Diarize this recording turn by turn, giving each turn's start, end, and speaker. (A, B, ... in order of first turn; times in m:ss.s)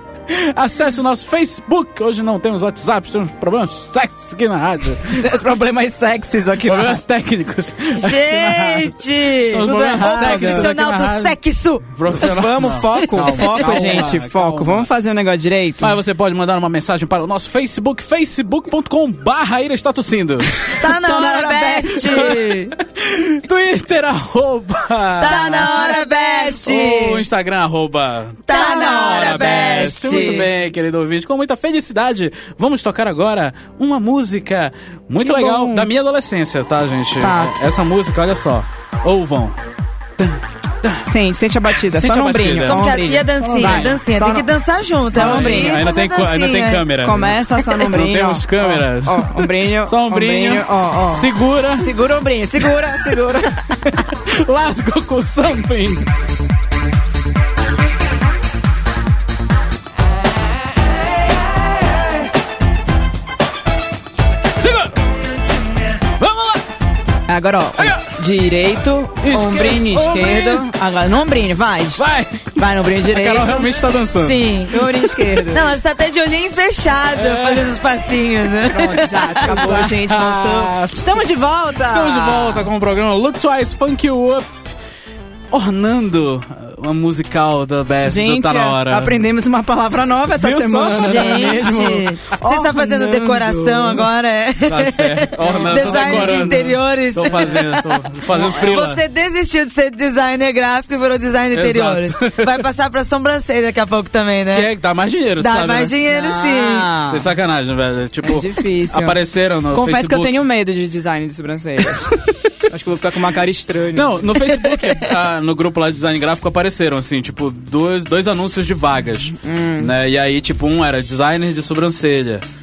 0:00.3-0:05.3 A
0:05.1-0:07.0 B
0:06.6-0:11.3 A
0:08.0-0:11.9 C
0:09.6-0:10.7 B
0:11.9-0:14.9 A
0:12.2-0:16.0 B
0:13.4-0:14.0 C
0:15.8-0:20.7 A
0:20.7-0:22.7 C
0:20.8-0:22.3 B
0:22.0-0:25.9 A
0:25.2-0:27.0 C
0:25.2-0:27.2 B
0:26.6-0:39.6 A
0:28.5-0:30.4 C
0:28.5-0:30.5 B
0:35.2-0:35.9 B
0:37.2-0:37.5 B
0:40.2-0:41.1 A
0:41.0-0:44.5 B
0:41.9-0:44.0 A
0:42.6-0:46.8 C
0:45.0-0:45.9 B
0:45.1-0:51.9 A
0:47.0-0:53.8 B
0:54.0-0:56.0 A
1:04.6-1:05.0 A
1:06.2-1:06.6 A
1:07.3-1:12.0 B
1:07.8-1:08.0 A
1:09.2-1:10.6 A
1:12.0-1:15.2 A
1:12.5-1:13.7 B
1:14.1-1:14.8 C
1:14.7-1:15.7 B
1:15.5-1:19.8 C
1:17.2-1:17.7 A
1:18.7-1:22.7 B
1:19.1-1:21.2 A
1:21.8-1:24.5 A
1:25.5-1:29.2 A
1:28.0-1:34.1 B
1:30.3-1:32.0 A
1:30.9-1:44.7 C
1:34.6-1:39.0 A
1:35.4-1:36.8 B
1:37.3-1:37.6 B
1:41.5-1:42.6 A
1:44.5-1:45.9 A
1:45.4-1:46.9 C
1:46.1-1:47.3 B
1:47.0-1:50.4 A
1:48.2-1:49.2 B
1:49.7-1:52.1 B
1:52.6-1:54.3 B
1:53.9-2:02.4 A
1:59.4-1:59.9 B